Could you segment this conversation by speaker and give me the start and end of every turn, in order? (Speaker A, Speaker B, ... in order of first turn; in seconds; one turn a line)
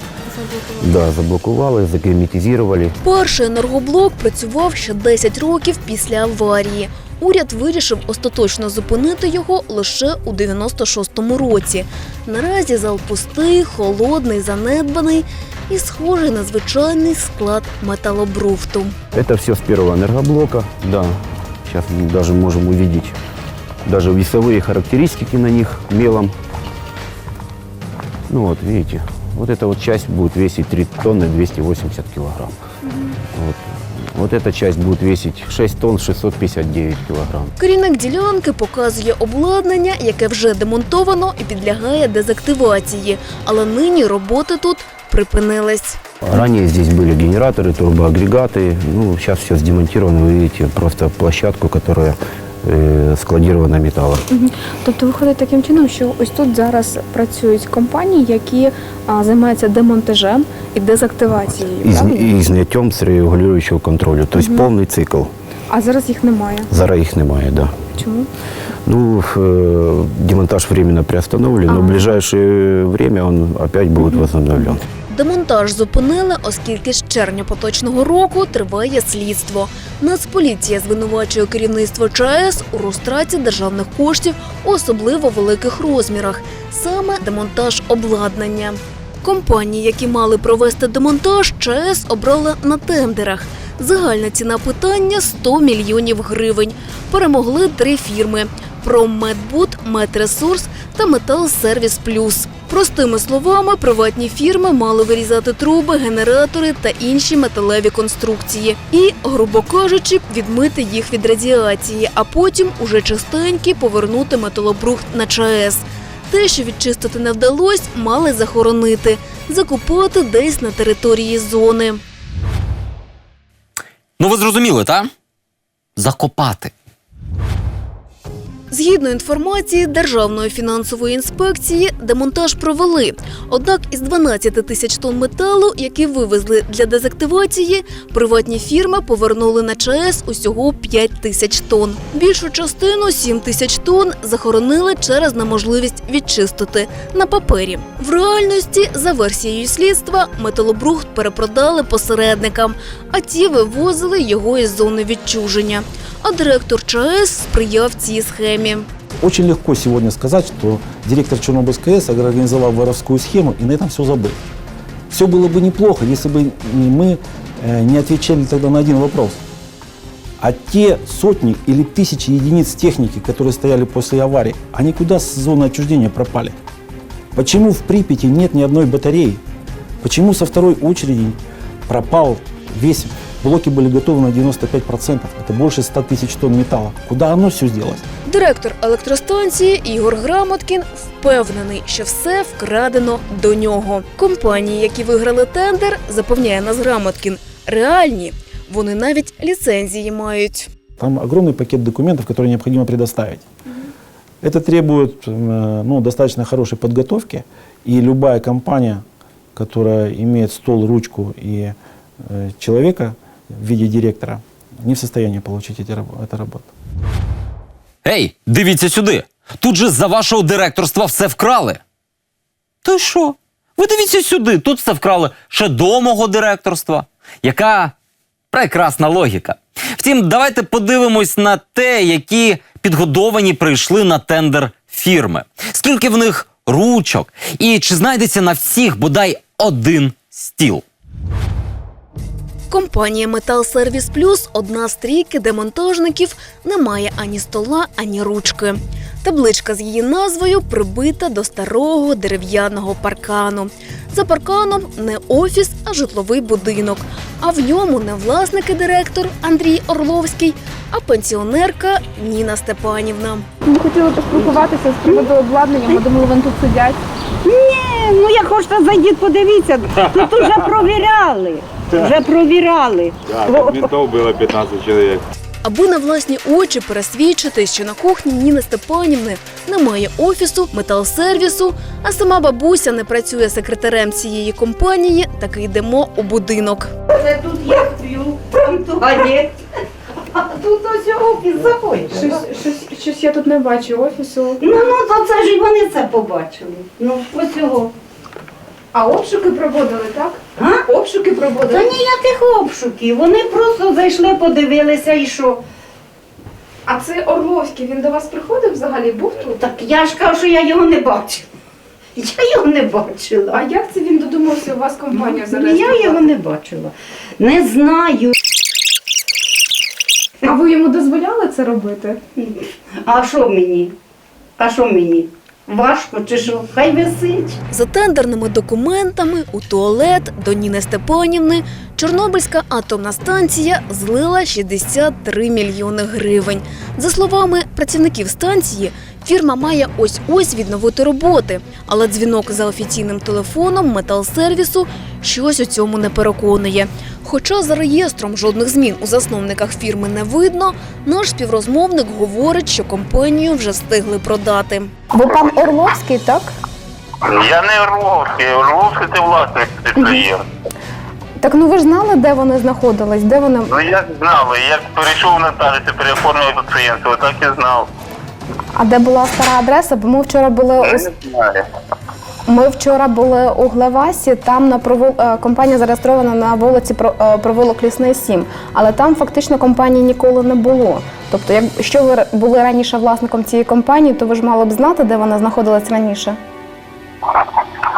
Speaker A: 0.2-0.9
Speaker B: 0.8-2.9
Speaker C: 3.0-18.9
Speaker B: 19.1-23.1
Speaker B: 23.8-26.3
Speaker B: 28.3-32.5
Speaker A: 32.9-33.1
Speaker B: 33.3-37.5
Speaker C: 37.6-46.0
Speaker B: 46.2-54.2
Speaker A: 54.3-62.3
Speaker B: 61.8-65.3
Speaker A: 64.4-64.7
Speaker A: 65.7-66.7
Speaker B: 66.7-67.9
Speaker A: 68.0-68.3
Speaker B: 68.8-74.9
Speaker A: 71.7-72.0
Speaker C: 75.1-122.0
Speaker D: 124.2-125.1
Speaker D: 126.0-126.7
Speaker C: 128.7-158.9
Speaker E: 159.2-164.4
Speaker E: 165.1-169.4
Speaker E: 170.4-176.5
Speaker E: 177.3-179.4
Speaker E: 180.0-188.0
Speaker C: 188.2-200.7
Speaker E: 201.0-203.4
Speaker E: 204.4-209.0
Speaker E: 209.6-216.7
Speaker D: 218.0-221.8
Speaker D: 222.8-227.9
Speaker D: 228.5-240.8
Speaker C: 242.7-263.5
Speaker A: 263.6-267.0
Speaker F: 264.3-265.3
Speaker F: 267.4-273.9
Speaker G: 270.1-270.6
Speaker G: 273.3-275.2
Speaker C: 275.6-286.9
Speaker F: 287.1-289.6
Speaker F: 290.3-292.5
Speaker A: 292.1-294.6
Speaker F: 294.6-297.9
Speaker A: 298.9-301.9
Speaker F: 300.6-300.8
Speaker F: 301.6-305.6
Speaker A: 306.9-309.7
Speaker F: 309.5-311.5
Speaker F: 312.1-313.6
Speaker A: 313.5-316.3
Speaker F: 315.1-318.3
Speaker A: 320.4-322.2
Speaker F: 322.4-323.9
Speaker F: 324.6-327.6
Speaker C: 327.7-354.9
Speaker A: 355.1-356.5
Speaker H: 357.2-360.4
Speaker A: 359.9-360.3
Speaker A: 361.4-363.7
Speaker H: 363.6-367.9
Speaker A: 368.7-371.1
Speaker H: 370.8-371.6
Speaker A: 372.5-386.4